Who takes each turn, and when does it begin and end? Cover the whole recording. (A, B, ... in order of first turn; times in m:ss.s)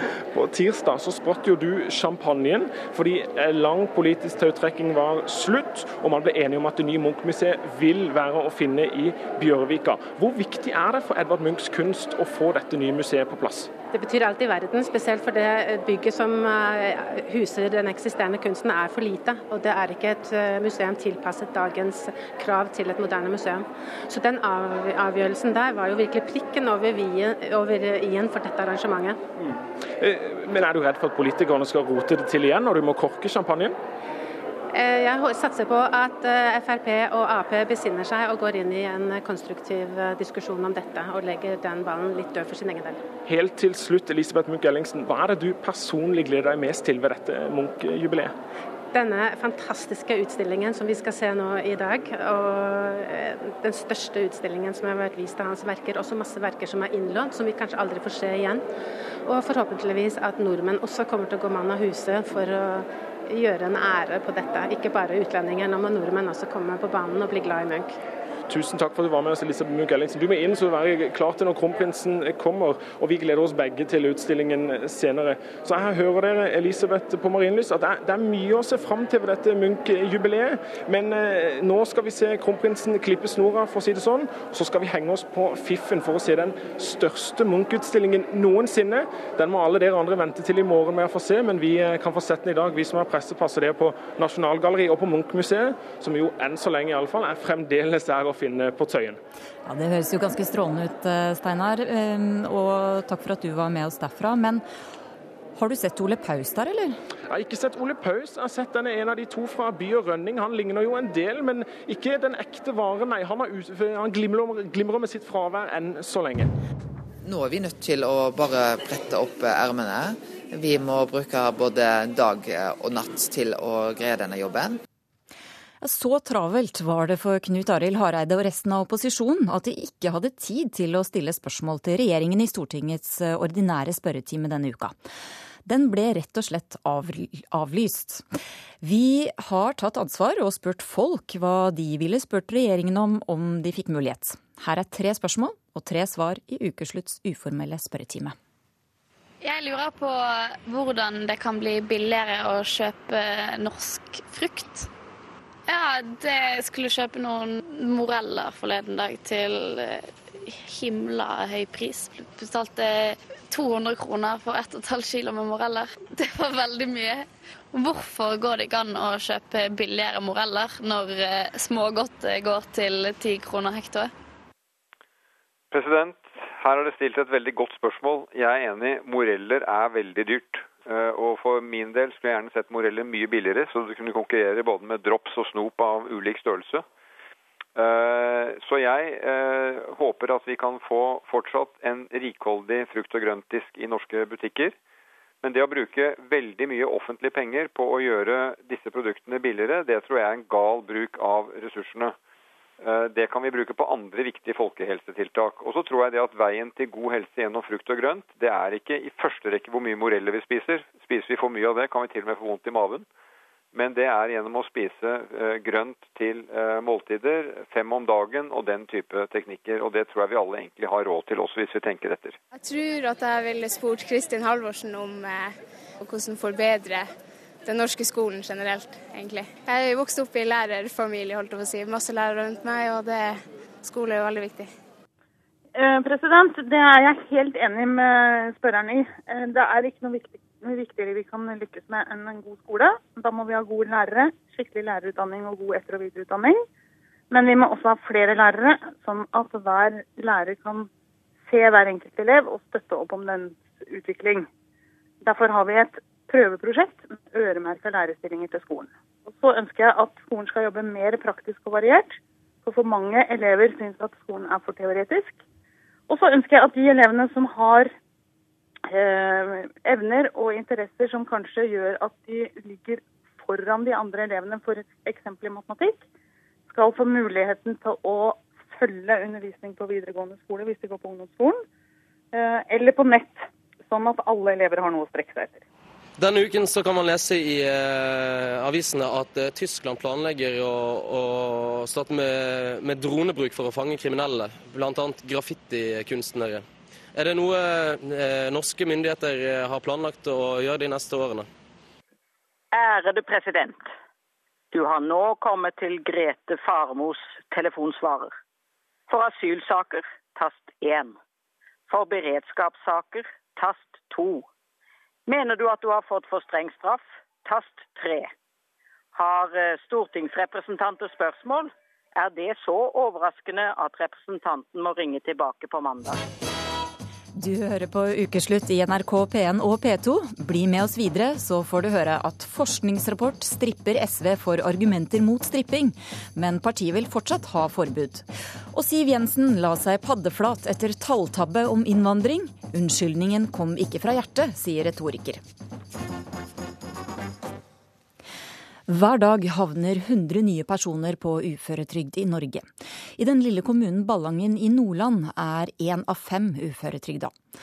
0:00.3-0:13.7 A
0:13.9-0:29.2 B
0:30.0-0:33.8 A
0:34.7-0:43.0 B
0:43.3-0:48.3 A
0:48.9-0:58.6 B
0:59.2-1:07.9 B
1:08.5-1:39.2 A
1:39.7-1:44.6 C
1:45.6-1:47.0 C
1:47.3-1:56.5 A
1:57.2-2:04.8 D
2:05.8-2:15.0 C
2:15.6-2:18.2 C
2:18.8-2:28.4 C
2:29.4-2:34.9 E
2:35.7-2:54.1 E
2:55.7-3:06.8 F
3:07.8-3:14.8 F
3:15.4-3:22.2 F
3:22.8-3:33.1 F
3:33.7-3:42.4 F
3:42.5-3:47.1 G
3:47.6-3:54.7 G
3:55.8-4:06.6 H
4:07.3-4:10.9 H
4:11.5-4:14.5 H
4:15.2-4:25.4 H
4:26.1-4:27.9 H
4:28.9-4:36.0 H
4:36.7-4:41.6 H
4:42.3-4:45.6 H
4:46.2-4:56.6 I
4:57.2-5:01.5 I
5:02.7-5:03.9 J
5:04.7-5:08.3 J
5:09.1-5:11.2 J
5:11.9-5:14.5 J
5:15.3-5:18.3 J
5:19.2-5:26.2 J
5:27.4-5:45.4 C
5:48.9-5:52.7 C
5:53.2-5:57.3 C